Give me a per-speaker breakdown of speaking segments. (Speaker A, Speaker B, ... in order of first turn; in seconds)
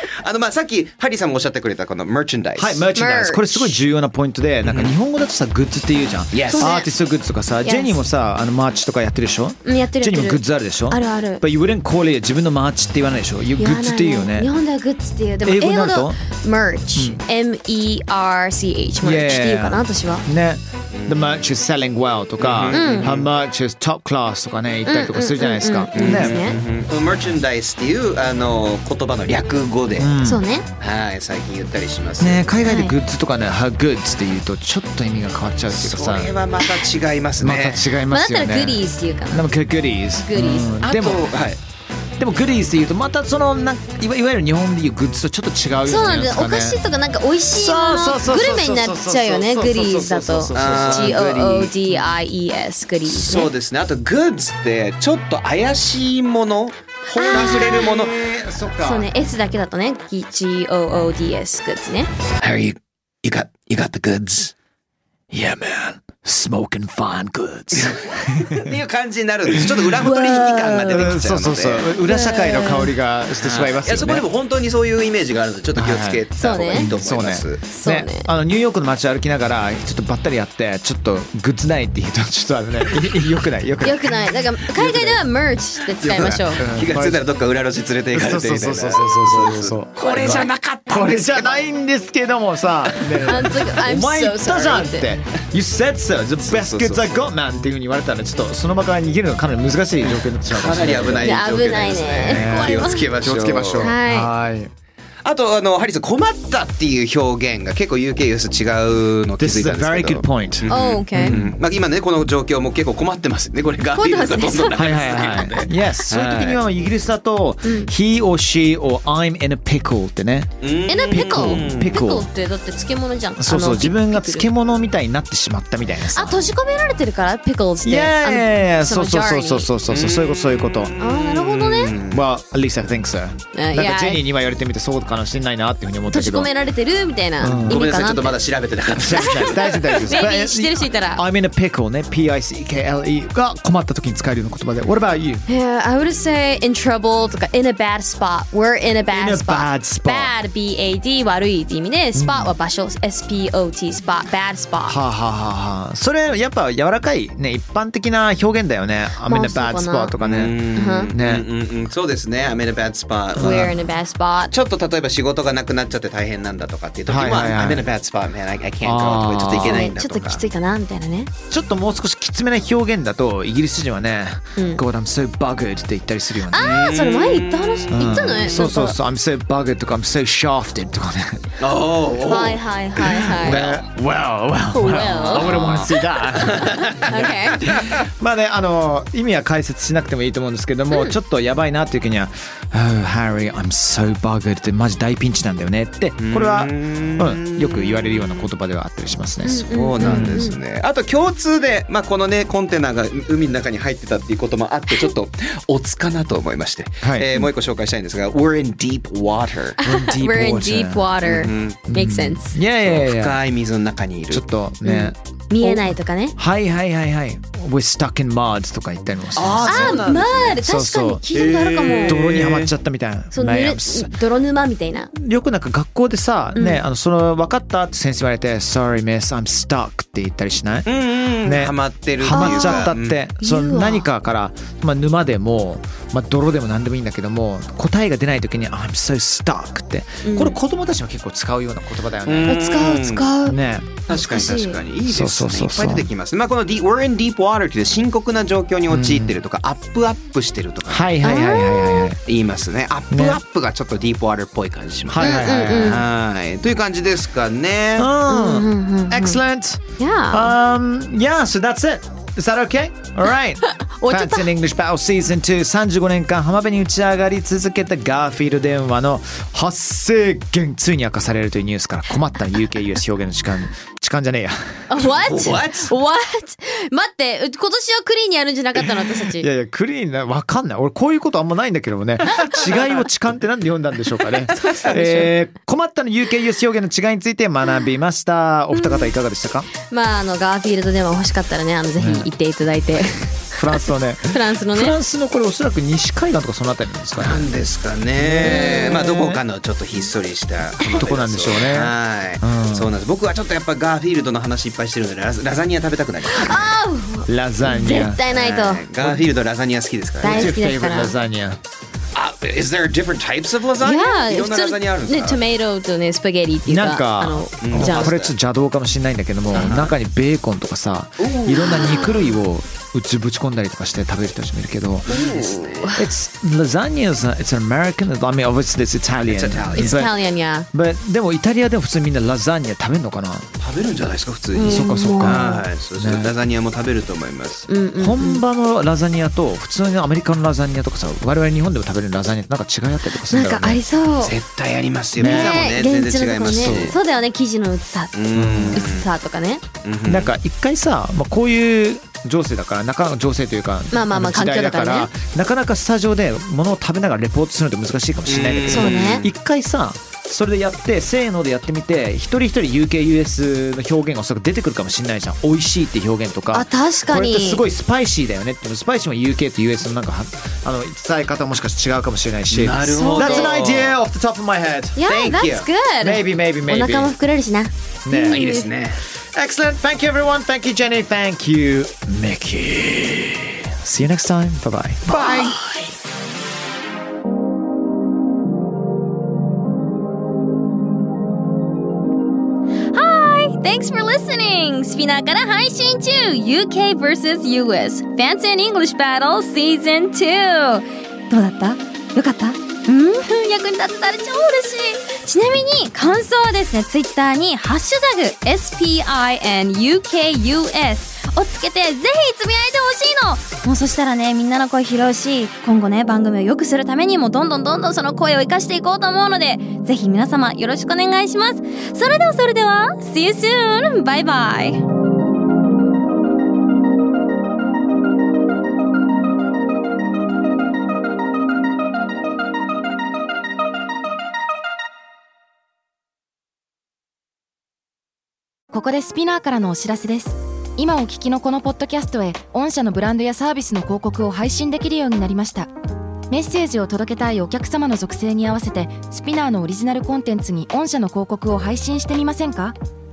Speaker A: 0.2-2.8, 4.6-4.9, 6.3-6.7, 20.9-21.6, 22.4-23.3, 25.9-30.1, 30.8-32.5, 35.7-37.8, 40.8-41.6, 50.5-51.2, 53.0-58.1, 62.4-64.5, 68.5-72.0, 73.4-77.7, 86.2-91.7, 92.9-93.3, 96.4-97.3, 100.0-103.9, 105.2-116.6, 120.6-121.9, 129.9-132.2, 137.7-140.1, 160.2-163.8, 164.5-170.4, 176.6-177.7, 181.6-182.6, 183.2-183.8, 185.2-185.9, 186.4-187.2, 196.2-198.5, 199.7-209.8, 211.3-211.8, 212.8-214.4, 219.3-220.6, 221.3-222.7, 230.8-233.2, 242.2-243.3, 244.1-251.2, 252.2-258.1, 275.0-275.9, 297.2-306.7, 308.3-310.5, 312.1-315.4, 317.6-318.3, 319.5-319.9, 321.2-322.2, 325.1-325.9, 329.2-330.0, 333.6-337.7, 344.2-347.0, 348.1-349.1, 349.8-350.3, 358.2-359.3, 372.5-374.0, 375.1-375.7, 378.3-379.0, 385.1-385.8
Speaker B: 2.6-14.5, 15.4-16.2, 16.9-17.2, 19.0-26.4, 30.0-30.4, 32.2-36.3, 37.4-41.3, 42.2-46.8, 47.5-52.0, 57.3-59.1, 65.3-68.7, 70.9-74.2, 75.7-84.1, 84.7-85.2, 86.0-87.2, 88.1-101.4, 102.2-104.7, 109.4-111.5, 114.8-122.3, 123.4-126.4, 127.8-130.9, 132.1-136.5, 137.4-137.8, 139.0-145.4, 149.1-150.3, 152.1-152.5, 154.8-161.4, 163.4-163.7, 167.1-167.9, 168.8-169.8, 171.5-176.7, 177.9-181.4, 183.0-200.4, 207.0-207.3, 209.8-213.4, 214.3-220.1, 220.6-221.3, 222.0-224.1, 225.1-230.9, 231.4-242.7, 243.4-246.1, 248.9-249.3, 250.8-252.2, 253.1-253.4, 255.1-256.0, 258.0-274.6, 278.8-289.7, 292.0-292.3, 293.6-297.5, 298.2-299.4, 300.8-302.9, 307.3-308.2, 309.0-309.3, 310.2-311.6, 316.6-325.1, 325.9-330.2, 330.7-333.5, 334.6-336.3, 338.0-343.8, 345.2-345.6, 346.4-347.0, 348.3-348.8, 350.1-375.0, 376.0-377.1, 378.1-378.5, 379.3-385.6
Speaker C: 2.9-3.8, 6.5-6.9, 7.6-8.0, 9.6-11.4, 13.6-20.2, 22.7-23.1, 24.8-26.5, 30.2-30.7, 32.6-32.9, 38.1-40.7, 45.8-53.5, 57.1-58.0, 58.8-62.1, 70.0-71.1, 72.0-72.9, 76.4-76.9, 77.7-78.3, 83.8-86.6, 93.2-95.1, 101.2-103.1, 103.8-104.3, 110.7-111.4, 114.0-115.6, 117.6-117.9, 120.9-124.5, 126.1-129.7, 131.0-131.9, 133.5-134.2, 136.1-138.4, 139.1-141.2, 145.5-155.0, 159.2-160.1, 160.7-161.1, 163.3-164.5, 169.6-171.3, 174.6-174.8, 176.5-179.0, 182.2-183.6, 184.7-185.5, 187.0-187.6, 190.9-191.2, 199.4-200.6, 209.8-212.5, 214.8-216.3, 219.6-222.2, 223.3-225.1, 226.5-226.8, 232.3-234.1, 240.2-240.6, 242.5-243.6, 244.1-244.7, 251.2-252.1, 255.2-256.0, 258.3-259.4, 260.0-260.5, 264.0-264.5, 274.9-279.5, 284.5-285.3, 288.7-289.1, 289.8-295.0, 298.4-299.0, 306.3-308.8, 310.2-311.1, 313.8-318.1, 321.6-322.2, 325.1-326.0, 329.7-330.7, 334.6-335.6, 337.7-338.4, 343.3-344.4, 345.2-348.1, 348.7-349.6, 353.9-355.1, 358.7-359.2, 366.5-367.6, 372.9-373.5, 374.9-378.7, 392.9-424.8
Speaker D: 438.7-445.7, 446.3-452.7